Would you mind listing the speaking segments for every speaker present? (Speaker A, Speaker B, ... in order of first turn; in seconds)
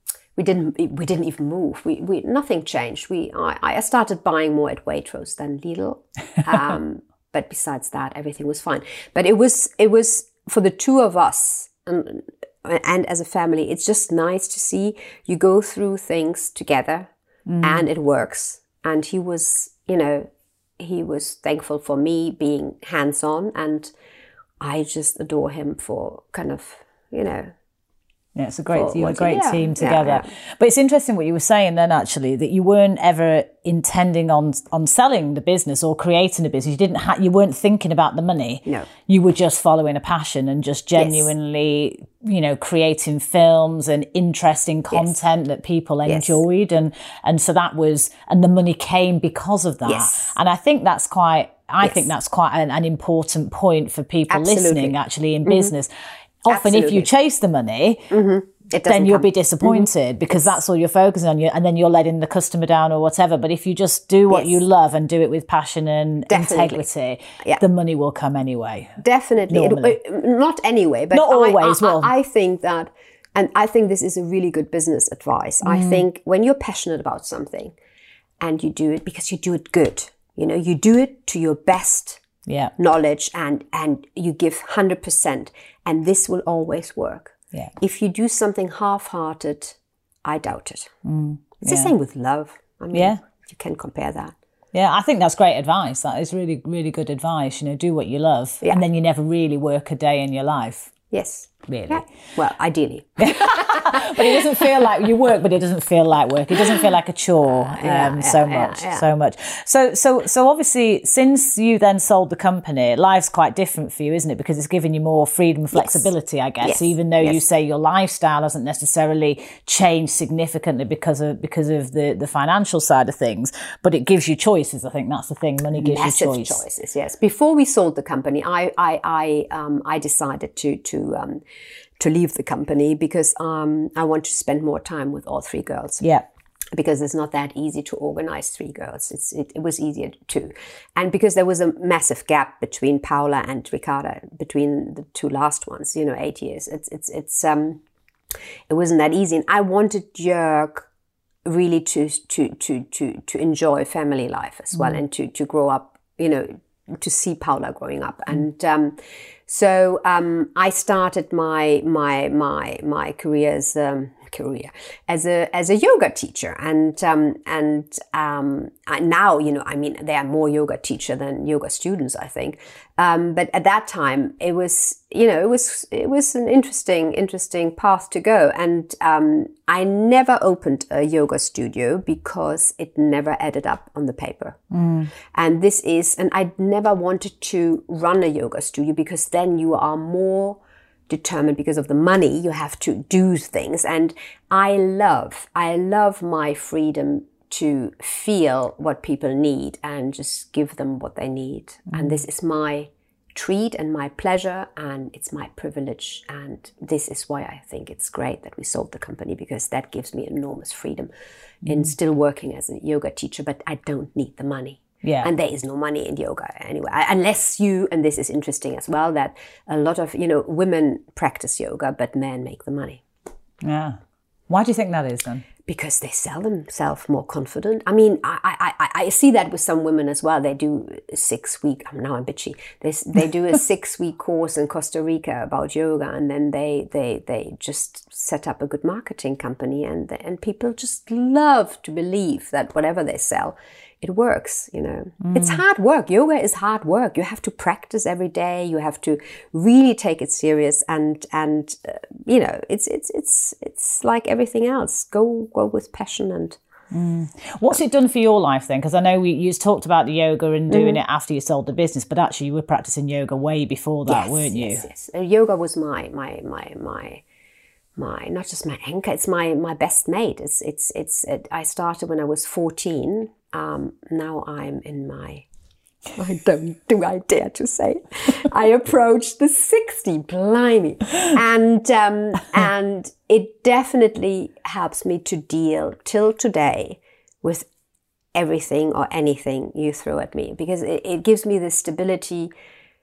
Speaker A: 0.4-17.1, 17.6-23.9, 24.6-27.5, 28.7-30.3, 41.0-41.3, 46.1-46.4, 49.9-50.4, 54.3-55.0, 55.5-55.7, 56.5-57.1, 58.1-60.6, 64.3-64.6, 66.3-66.9, 69.0-77.7, 78.4-82.2, 82.8-90.9, 91.6-94.3, 101.1-105.0, 107.7-109.0, 115.7-116.1, 116.6-117.4, 125.8-131.4, 132.0-136.1, 136.7-147.8, 148.7-150.9, 151.4-184.6, 185.3-211.1, 211.7-223.0, 225.7-256.6, 260.7-261.0, 264.1-267.2, 268.0-275.5, 276.2-287.7, 288.4-292.5
Speaker B: 17.5-17.9, 28.4-55.9, 56.4-58.1, 58.9-70.0, 71.1-72.1, 75.6-76.0, 82.5-82.7, 91.0-91.9, 92.9-93.2, 94.7-100.9, 101.7-102.1, 103.2-126.6, 184.7-185.1, 201.9-202.2, 215.0-215.3, 223.6-224.0, 224.5-225.5, 245.2-245.6, 256.9-264.9